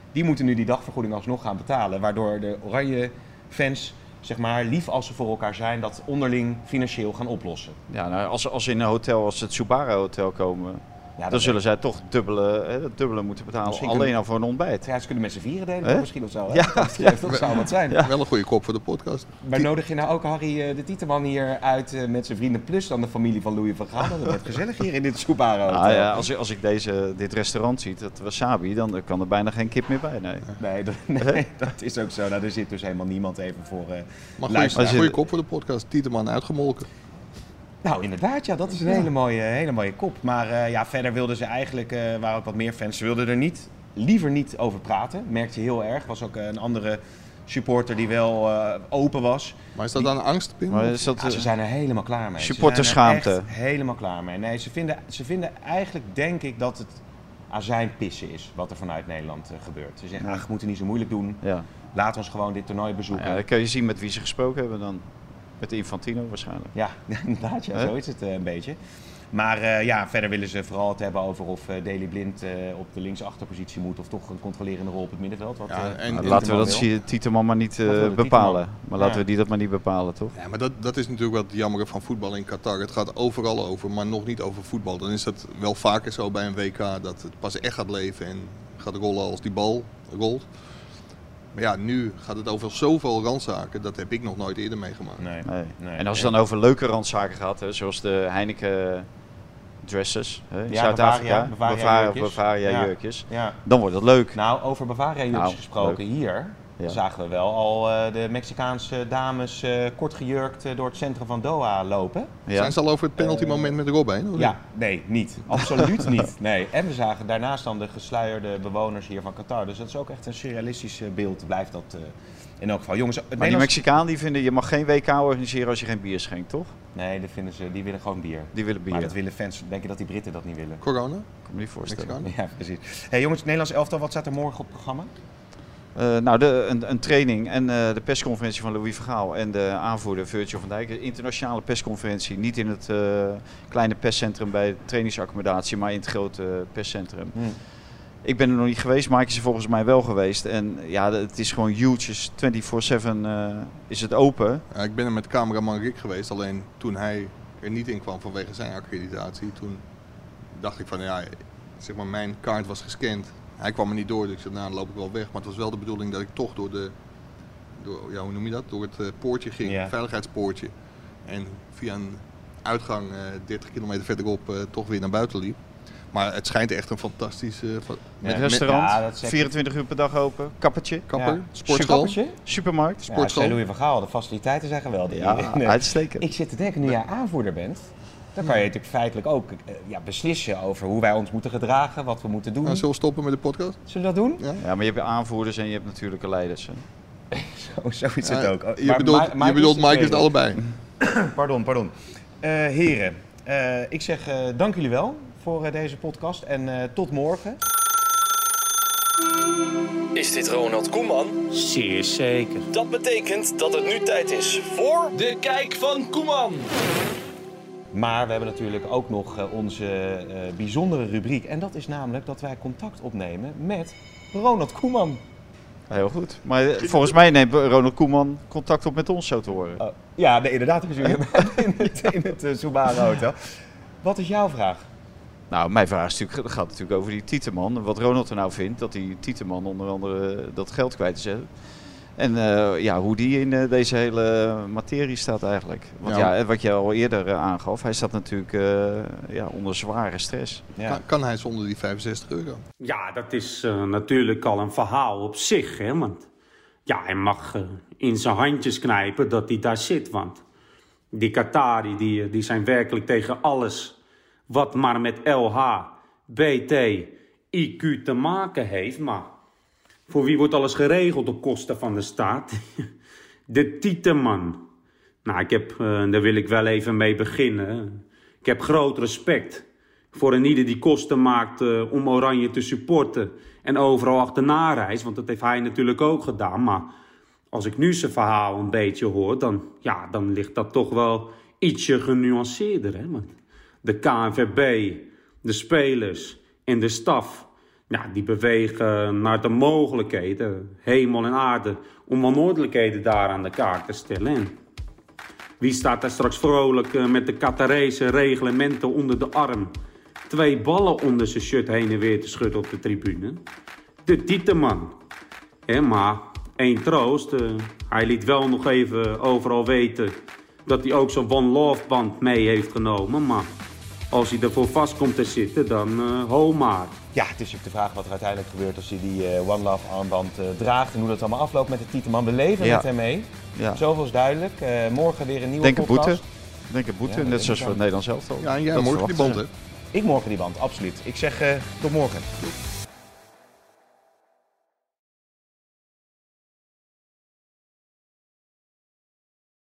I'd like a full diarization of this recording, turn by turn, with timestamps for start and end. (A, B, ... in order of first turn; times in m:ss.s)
0:00.1-0:07.8 A
0:07.9-0:14.9 B
0:11.2-0:11.6 A
0:13.6-0:14.1 A
0:14.8-0:18.0 A
0:15.8-0:17.4 B
0:17.9-0:19.6 C
0:19.4-0:26.2 A
0:25.7-0:30.5 B
0:30.6-0:35.1 A
0:34.4-0:36.9 C
0:34.7-0:35.2 B
0:37.8-0:50.0 A
0:49.8-0:51.0 C
0:50.7-0:51.5 B
0:51.2-0:57.0 A
0:52.4-0:53.5 B
0:57.5-1:03.4 A
1:01.4-1:01.7 B
1:03.1-1:05.1 B
1:05.6-1:06.7 B
1:06.7-1:08.8 A
1:09.3-1:16.9 A
1:15.7-1:16.8 C
1:16.1-1:20.3 B
1:17.8-1:19.2 A
1:20.3-1:30.5 C
1:31.5-1:35.2 C
1:35.2-1:36.3 A
1:35.4-1:39.1 B
1:39.8-1:44.4 B
1:40.7-1:43.6 A
1:44.3-1:52.3 A
1:45.3-1:46.0 B
1:52.5-1:52.8 B
1:52.5-1:54.6 C
1:53.2-1:53.7 A
1:54.4-2:03.8 A
1:55.5-1:56.2 B
2:03.4-2:06.7 B
2:06.9-2:10.8 A
2:08.5-2:09.2 B
2:10.8-2:11.3 C
2:11.5-2:12.2 B
2:11.8-2:12.3 C
2:12.2-2:15.1 A
2:15.9-2:27.4 B
2:28.2-2:34.6 B
2:34.7-2:39.8 C
2:40.5-2:46.9 C
2:47.8-2:50.7 C
2:49.6-2:49.9 A
2:51.2-2:55.6 C
2:56.1-2:58.7 C
2:58.2-2:59.5 A
2:58.2-3:01.1 B
3:01.1-3:02.2 C
3:01.1-3:02.4 A
3:01.6-3:03.6 B
3:03.0-3:12.8 A
3:05.1-3:06.3 B
3:12.6-3:13.8 C
3:13.9-3:14.4 A
3:14.4-3:14.6 C
3:14.6-3:16.8 B
3:17.3-3:20.3 A
3:18.2-3:20.6 C
3:21.0-3:27.6 A
3:30.1-3:31.4 D
3:31.5-3:32.7 E
3:32.7-3:36.7 D
3:37.9-3:45.2 A
3:45.9-3:49.8 B
3:49.8-3:54.8 A
3:55.5-4:01.5 B
4:02.2-4:10.6 B
4:06.0-4:06.3 C
4:10.9-4:12.6 C
4:12.8-4:16.3 E
4:16.8-4:20.4 E
4:21.1-4:23.9 E
4:24.5-4:29.3 E
4:30.1-4:32.8 E
4:33.5-4:34.6 E
4:35.2-4:46.9 E
4:47.5-5:04.5 E
5:05.6-5:09.7 E
5:10.3-5:13.4 E
5:14.0-5:14.9 E
5:15.7-5:23.5 E
5:24.1-5:26.9 E
5:27.1-5:36.2 A
5:32.6-5:32.9 B
5:33.5-5:33.8 B
5:35.6-5:39.4 B
5:37.0-5:37.8 A
5:38.4-5:39.5 C
5:39.9-5:42.3 A